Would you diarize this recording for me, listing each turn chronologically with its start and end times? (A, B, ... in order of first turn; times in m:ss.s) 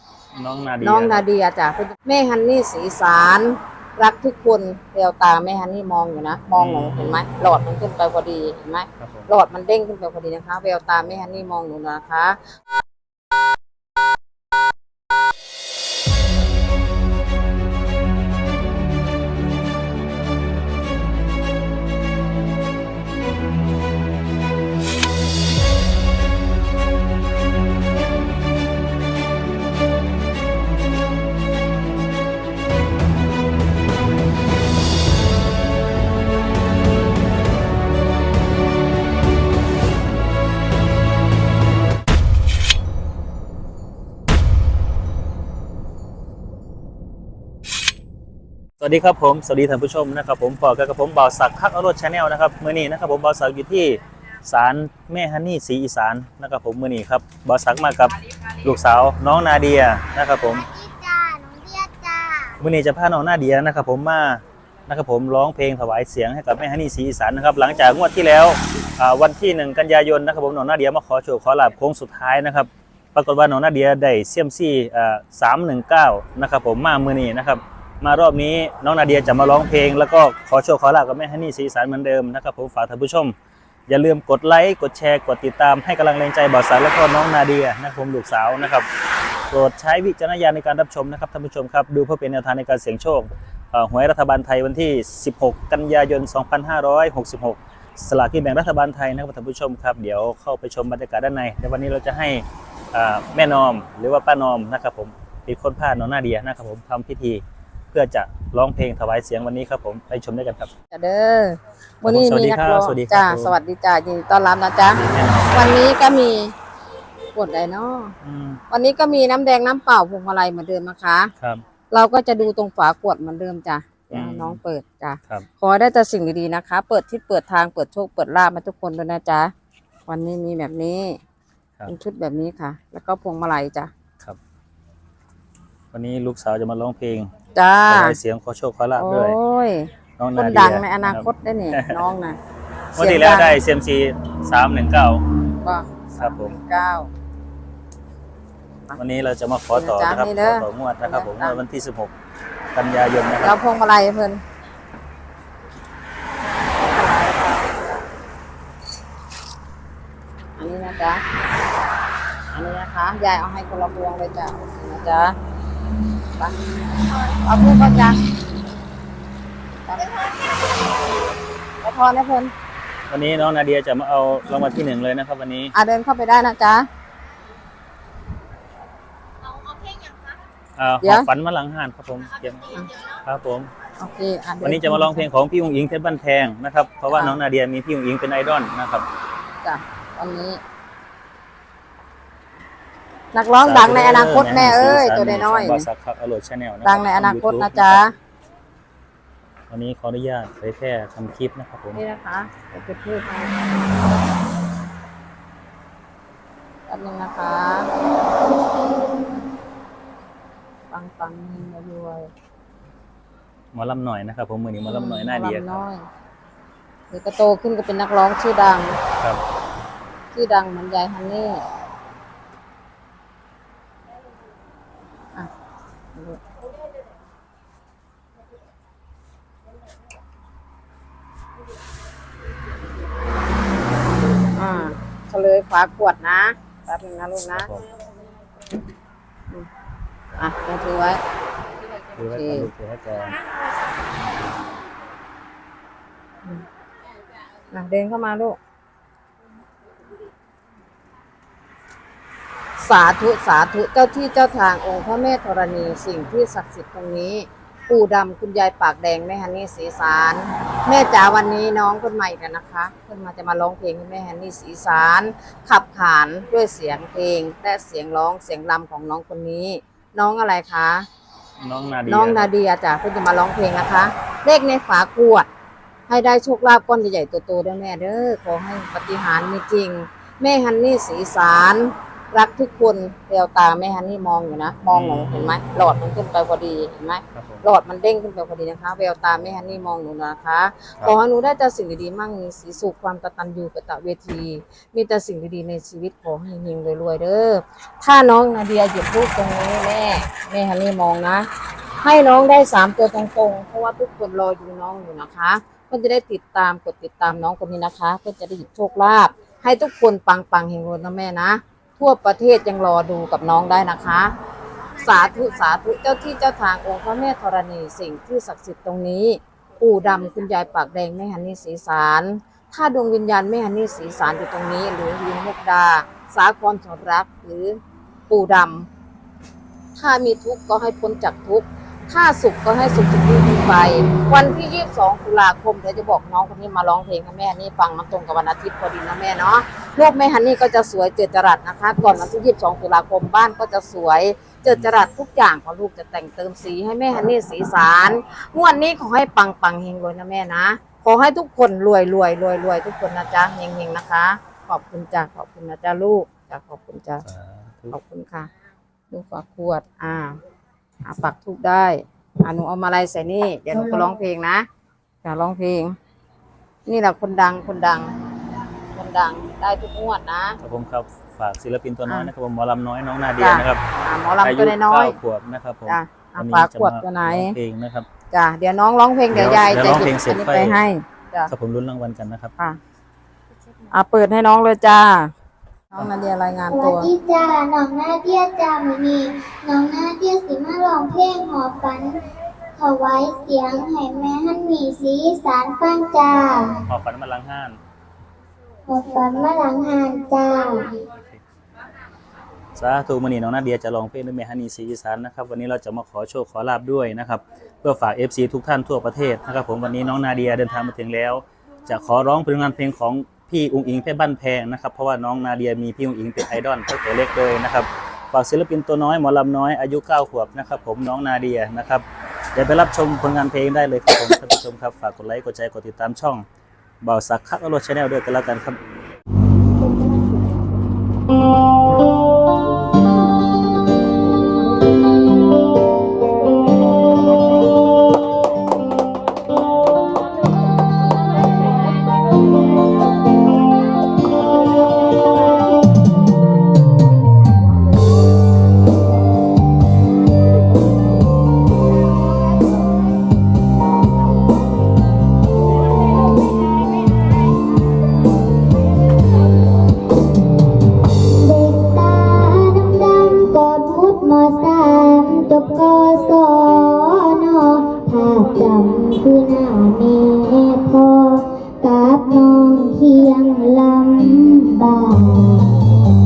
0:00.4-0:01.2 A
0:00.8-0:12.4 B
0:06.6-0:07.2 A
0:09.0-0:09.3 A
0:48.8-1:00.7 A
1:00.5-1:02.6 C
1:02.6-1:23.3 A
1:23.9-1:28.9 A
1:29.5-1:47.4 A
1:47.9-1:50.7 A
1:50.9-1:55.0 B
1:52.0-1:53.6 A
1:54.9-1:55.8 A
1:55.5-1:56.5 B
1:57.3-1:58.1 B
1:58.2-1:58.6 A
1:58.7-2:01.3 B
2:01.9-2:09.5 B
2:04.1-2:04.6 A
2:10.1-2:11.2 B
2:11.8-2:13.9 B
2:15.9-2:17.3 A
2:17.5-2:18.2 B
2:17.9-2:19.4 A
2:18.9-2:22.4 B
2:20.2-2:22.0 A
2:22.9-2:25.2 A
2:23.0-2:23.6 B
2:25.6-2:27.1 B
2:26.2-2:26.5 A
2:29.0-2:32.1 A
2:29.7-2:31.6 B
2:32.7-2:33.6 A
2:33.4-2:34.4 B
2:36.8-2:38.0 B
2:40.6-2:41.2 B
2:42.5-2:45.4 B
2:47.2-2:48.2 B
2:49.9-2:50.3 B
2:51.8-2:52.5 B
2:53.1-2:55.7 A
2:55.7-2:56.9 B
3:00.8-3:03.7 A
3:01.0-3:01.3 B
3:04.0-3:05.3 B
3:04.6-3:09.1 A
3:07.1-3:07.4 B
3:09.6-3:10.6 B
3:13.3-3:15.9 B
3:13.6-3:18.0 A
3:16.8-3:18.1 B
3:19.7-3:22.0 A
3:21.9-3:23.8 B
3:26.9-3:27.9 B
3:30.9-3:32.3 B
3:33.7-3:35.8 A
3:34.8-3:36.1 B
3:37.1-3:39.0 B
3:40.3-3:41.6 B
3:46.1-3:46.4 B
3:54.5-3:57.7 B
3:57.5-3:57.8 A
4:00.4-4:01.2 B
4:02.2-4:03.4 A
4:02.2-4:02.7 B
4:07.7-4:08.6 B
4:12.8-4:31.1 B
4:31.6-4:32.5 A
4:32.1-4:35.5 B
4:36.1-5:01.5 B
4:44.9-4:45.4 A
4:47.3-4:47.6 A
5:02.0-5:14.3 B
5:15.0-5:28.9 B
5:30.0-5:57.2 B
5:57.2-5:57.9 A
5:57.9-5:58.5 B
5:59.1-6:00.4 B
6:01.0-6:04.6 B
6:05.2-6:06.0 B
6:06.9-6:08.1 B
6:08.9-6:10.6 B
6:10.6-6:13.8 A
6:13.4-6:15.2 B
6:14.4-6:18.1 A
6:15.9-6:17.6 B
6:18.3-6:21.5 B
6:19.3-6:20.8 A
6:21.5-6:22.5 A
6:23.9-6:25.3 B
6:25.9-6:27.1 B
6:26.7-6:32.2 C
6:32.8-6:36.8 C
6:36.9-6:37.8 A
6:38.9-6:41.0 C
6:42.8-7:06.4 A
7:07.0-7:08.8 A
7:41.2-7:55.8 C